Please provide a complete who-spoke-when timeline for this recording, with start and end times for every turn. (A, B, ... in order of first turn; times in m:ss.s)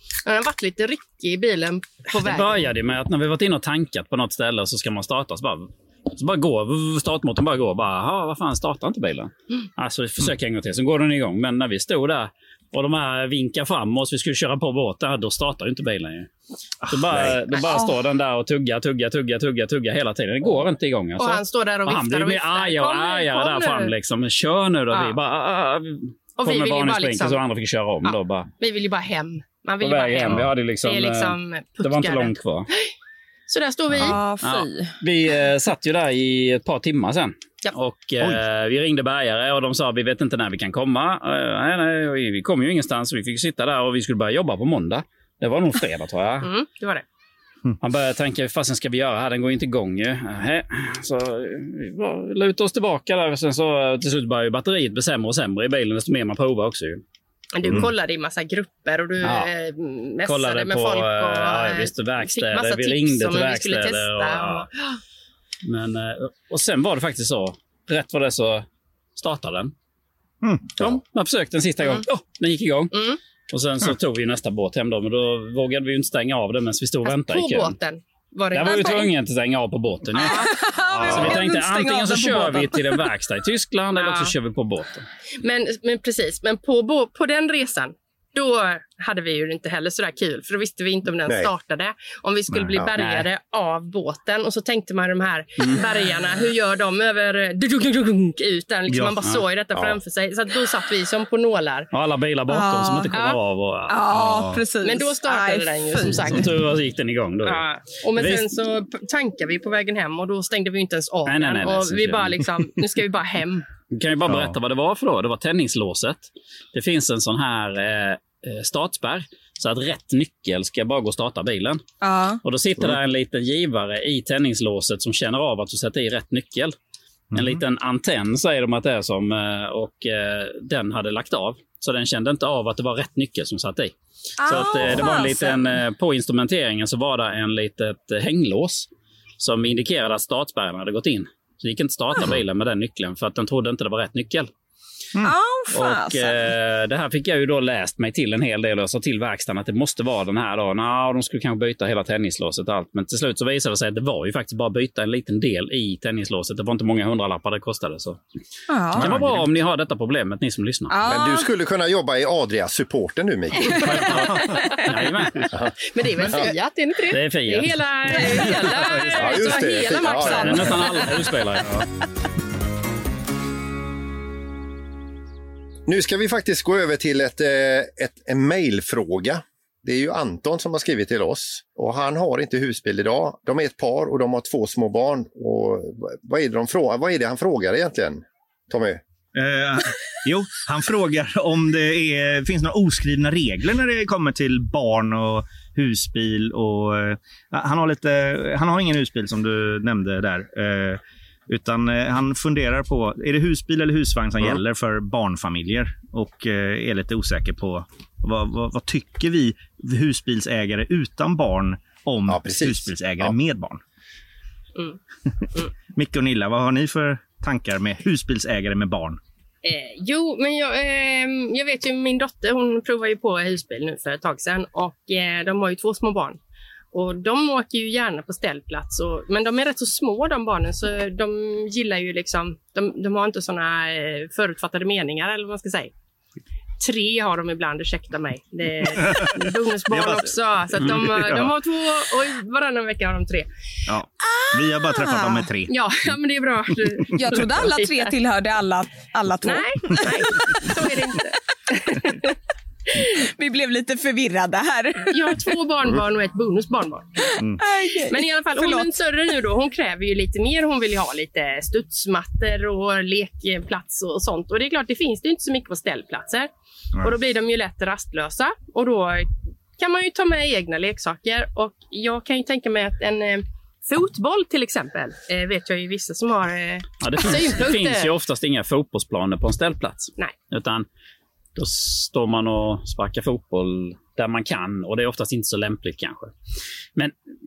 0:00.2-0:02.7 A
0:02.1-0:16.3 B
0:16.8-0:17.4 C
0:16.9-0:28.5 B
0:17.7-0:17.9 D
0:21.2-0:23.9 A
0:26.4-0:27.4 A
0:28.0-0:32.9 A
0:29.8-0:32.7 B
0:33.5-0:34.2 A
0:34.0-0:34.9 D
0:34.4-0:46.5 B
0:46.4-0:47.0 A
0:47.8-0:57.0 B
0:57.5-1:05.0 A
0:59.2-0:59.5 B
1:00.2-1:04.7 B
1:05.6-1:09.7 B
1:10.4-1:10.9 C
1:10.8-1:13.0 B
1:12.9-1:13.2 A
1:13.5-1:17.8 B
1:17.0-1:19.1 A
1:18.5-1:20.5 B
1:18.7-1:19.0 D
1:20.1-1:23.0 D
1:20.2-1:20.5 A
1:21.0-1:25.1 B
1:21.0-1:21.4 E
1:24.0-1:24.3 A
1:25.4-1:41.9 A
1:31.2-1:31.5 E
1:32.5-1:32.8 C
1:33.0-1:33.3 B
1:38.9-1:39.4 C
1:41.9-1:44.0 B
1:42.5-1:43.1 D
1:43.1-1:43.4 A
1:43.9-1:46.3 D
1:44.1-1:44.6 C
1:44.8-1:46.5 A
1:46.2-1:47.6 B
1:47.4-1:53.6 A
1:48.2-1:48.4 B
1:51.2-1:52.3 B
1:53.9-2:01.8 B
1:54.3-1:54.5 C
2:02.0-2:02.4 D
2:02.4-2:06.7 B
2:07.3-2:07.6 C
2:07.3-2:13.9 B
2:14.4-2:15.8 D
2:14.4-2:18.9 B
2:19.4-2:24.5 B
2:25.2-2:26.4 D
2:25.7-2:38.2 B
2:38.7-2:39.1 D
2:39.0-2:39.4 C
2:39.0-2:40.9 B
2:40.9-2:41.5 D
2:41.0-2:44.2 E
2:43.8-2:44.2 A
2:43.8-2:45.4 B
2:44.6-2:44.9 D
2:45.5-2:46.5 E
2:45.8-2:50.8 A
2:47.1-2:47.7 B
2:48.5-2:49.6 C
2:49.1-2:50.8 E
2:49.9-2:51.1 D
2:50.3-2:51.7 B
2:55.9-3:09.0 E
3:09.3-3:33.8 C
3:32.3-3:33.4 E
3:35.9-3:39.2 C
3:39.6-3:46.4 A
3:46.9-3:55.9 A
3:56.8-4:03.5 A
3:58.8-4:01.5 C
4:03.9-4:06.1 C
4:04.2-4:05.5 D
4:05.7-4:08.1 A
4:07.1-4:11.0 D
4:09.4-4:11.4 A
4:11.8-4:12.3 D
4:12.9-4:15.6 D
4:15.1-4:17.4 A
4:17.6-4:19.0 D
4:18.1-4:26.5 A
4:27.0-4:38.1 A
4:37.0-4:40.9 B
4:41.6-4:46.3 B